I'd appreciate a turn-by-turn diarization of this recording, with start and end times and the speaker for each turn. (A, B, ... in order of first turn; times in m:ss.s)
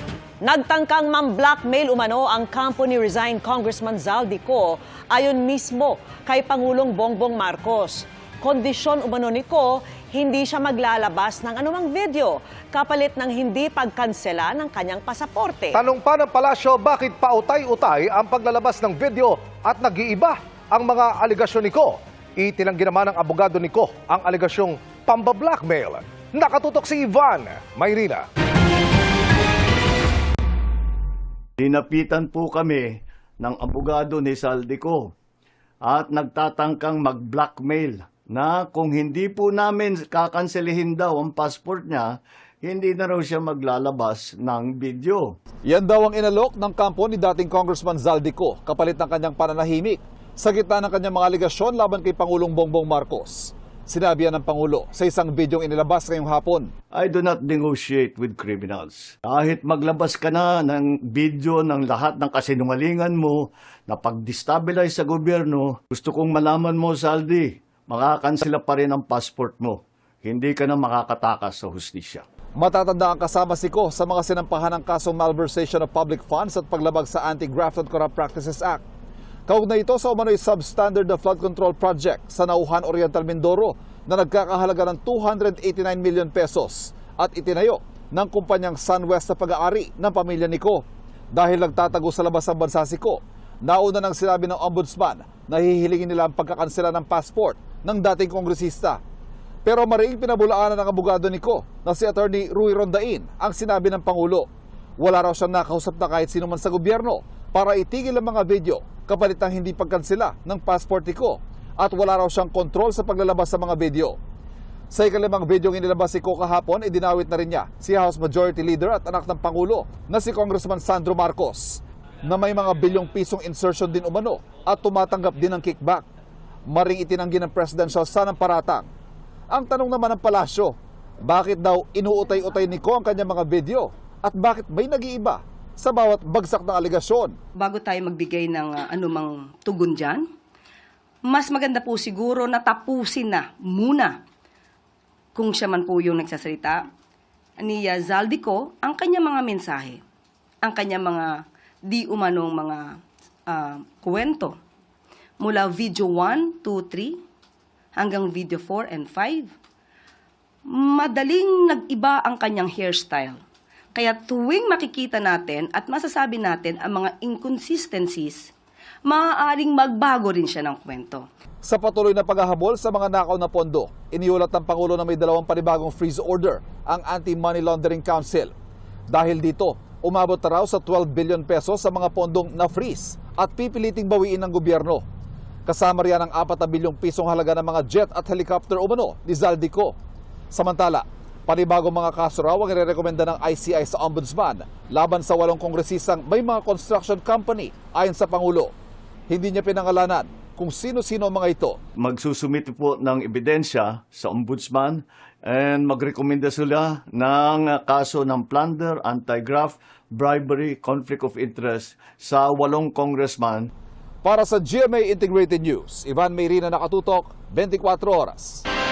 0:00.4-0:15.8 A
0:15.7-0:28.3 B
0:31.6-0:35.1 C
0:35.8-0:45.4 C
0:45.6-0:56.7 D
0:56.9-1:12.2 C
1:12.6-1:18.8 D
1:19.5-1:39.0 D
1:39.6-1:44.5 D
1:45.0-1:54.2 D
1:54.9-2:06.0 D
2:06.7-2:08.9 D
2:09.5-2:17.4 D
2:17.6-2:20.3 E
2:21.2-2:24.2 E
2:25.3-2:26.9 E
2:27.6-2:30.0 E
2:30.6-2:34.6 E
2:35.4-2:37.2 E
2:38.0-2:39.5 E
2:40.7-2:43.4 E
2:43.9-2:48.5 E
2:49.0-2:51.2 E
2:51.6-2:58.5 D
2:59.1-3:05.0 D
3:05.6-3:09.9 D
3:10.5-3:18.7 D
3:19.3-3:21.8 D
3:22.0-3:33.7 C
3:34.2-3:38.6 D